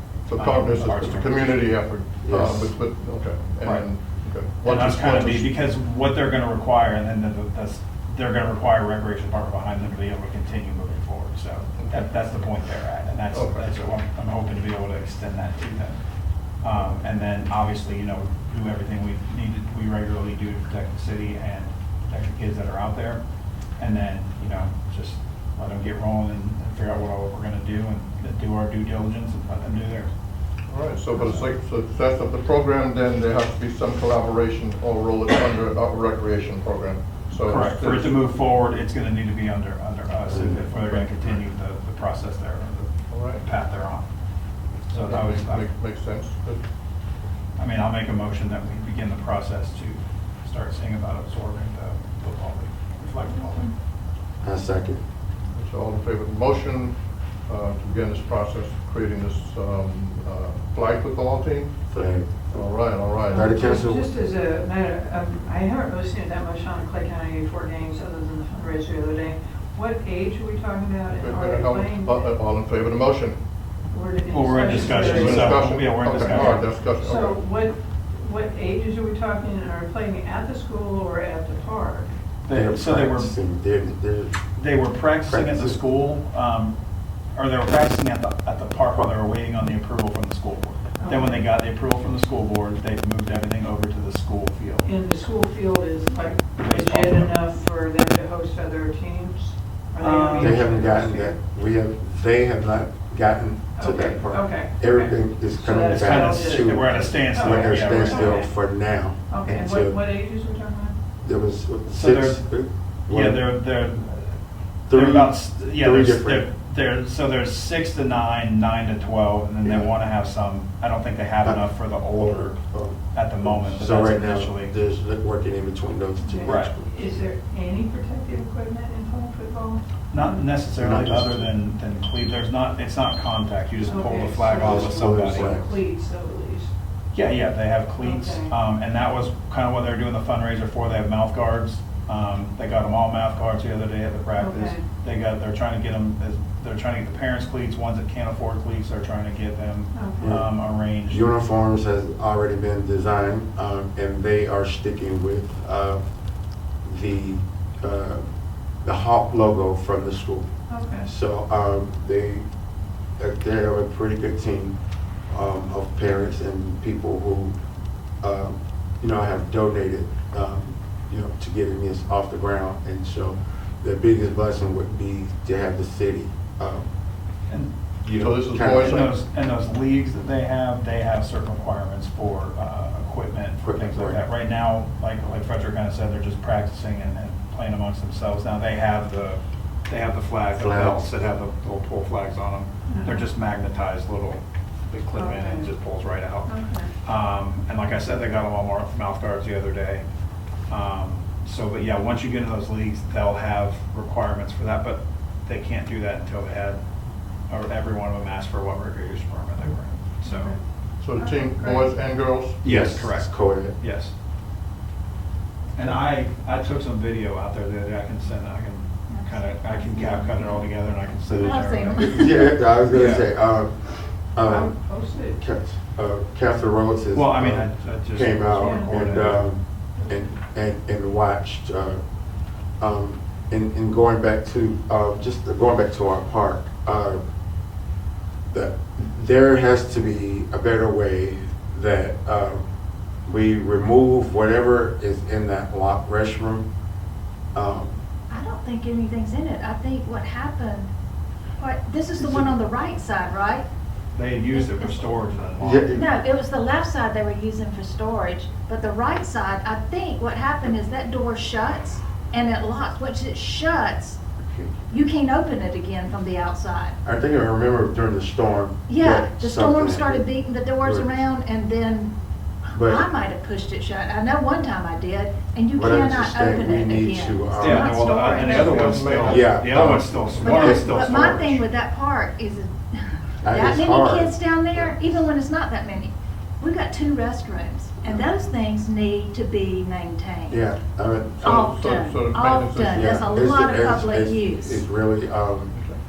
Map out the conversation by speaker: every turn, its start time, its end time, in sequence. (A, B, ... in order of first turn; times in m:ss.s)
0:00.3-0:05.5 A
0:00.3-0:01.6 B
0:02.2-0:02.6 C
0:04.6-0:16.0 B
0:11.8-0:12.1 A
0:13.3-0:13.7 A
0:16.6-0:23.2 B
0:23.8-0:30.1 B
0:30.7-0:38.2 A
0:37.4-0:44.1 B
0:40.3-0:40.6 C
0:40.7-0:41.4 A
0:43.1-0:43.4 A
0:44.8-0:45.7 B
0:44.9-0:46.6 A
0:47.6-0:53.7 B
0:53.4-0:53.6 D
0:54.4-0:55.0 C
0:55.5-1:01.9 A
1:01.9-1:02.5 C
1:02.5-1:03.6 A
1:03.3-1:12.2 D
1:03.3-1:04.1 C
1:11.1-1:13.4 A
1:13.9-1:22.1 D
1:14.3-1:16.6 B
1:14.6-1:17.4 A
1:22.4-1:23.4 B
1:22.5-1:24.4 C
1:24.6-1:26.8 B
1:25.3-1:25.8 C
1:27.3-1:34.9 B
1:31.0-1:31.4 D
1:34.8-1:41.3 D
1:36.6-1:37.3 B
1:40.0-1:40.7 B
1:40.4-1:50.0 C
1:43.8-1:48.5 D
1:45.8-1:48.5 B
1:49.3-1:51.0 D
1:51.2-1:53.4 C
1:51.9-1:52.4 B
1:53.1-1:54.4 B
1:54.9-1:56.5 C
1:54.9-2:02.6 B
1:59.6-1:59.9 C
2:01.4-2:07.1 C
2:03.1-2:04.8 B
2:06.2-2:10.4 D
2:06.4-2:06.7 B
2:10.1-2:15.6 B
2:10.8-2:11.5 C
2:13.8-2:16.7 D
2:14.5-2:15.7 C
2:17.1-2:31.3 B
2:18.0-2:18.5 D
2:24.3-2:24.8 D
2:29.9-2:30.3 D
2:30.2-2:30.5 C
2:31.1-2:36.0 C
2:36.8-2:38.2 C
2:38.8-2:42.4 C
2:40.7-2:41.1 D
2:43.2-2:44.8 C
2:45.3-2:47.6 C
2:48.2-2:56.9 C
2:58.0-2:59.1 C
2:58.1-2:59.1 A
2:58.7-3:16.5 B
3:03.6-3:04.2 C
3:10.6-3:11.1 C
3:12.9-3:13.3 D
3:15.1-3:15.7 D
3:16.4-3:16.9 D
3:17.0-3:20.0 B
3:20.7-3:26.8 B
3:27.5-3:30.5 B
3:30.2-3:30.6 D
3:31.0-3:32.6 A
3:31.2-3:32.0 D
3:32.6-3:34.1 B
3:32.6-3:33.8 C
3:35.8-3:42.3 B
3:39.1-3:40.5 E
3:41.3-3:44.8 C
3:41.4-3:42.5 E
3:42.8-3:43.3 B
3:44.4-3:45.4 D
3:45.3-3:52.0 C
3:47.1-3:49.4 B
3:48.6-3:48.9 D
3:52.8-3:57.2 C
3:58.5-4:02.6 C
4:03.2-4:06.7 C
4:07.5-4:08.0 C
4:08.3-4:10.9 E
4:11.6-4:13.7 E
4:12.2-4:12.5 C
4:14.1-4:15.9 B
4:14.5-4:15.3 E
4:15.6-4:16.1 C
4:15.9-4:24.2 E
4:24.4-4:24.7 C
4:24.9-4:27.0 E
4:27.0-4:30.3 C
4:28.9-4:32.1 E
4:30.8-4:31.1 C
4:32.6-4:38.6 E
4:32.7-4:33.0 C
4:35.7-4:38.1 C
4:37.6-4:41.6 B
4:38.3-4:38.7 D
4:38.4-4:40.0 A
4:38.8-4:40.9 C
4:40.4-4:50.6 E
4:43.4-4:45.2 C
4:48.0-4:48.3 C
4:50.5-4:51.6 C
4:51.4-4:53.4 A
4:51.4-4:54.8 E
4:52.9-4:55.7 C
4:55.7-4:56.0 A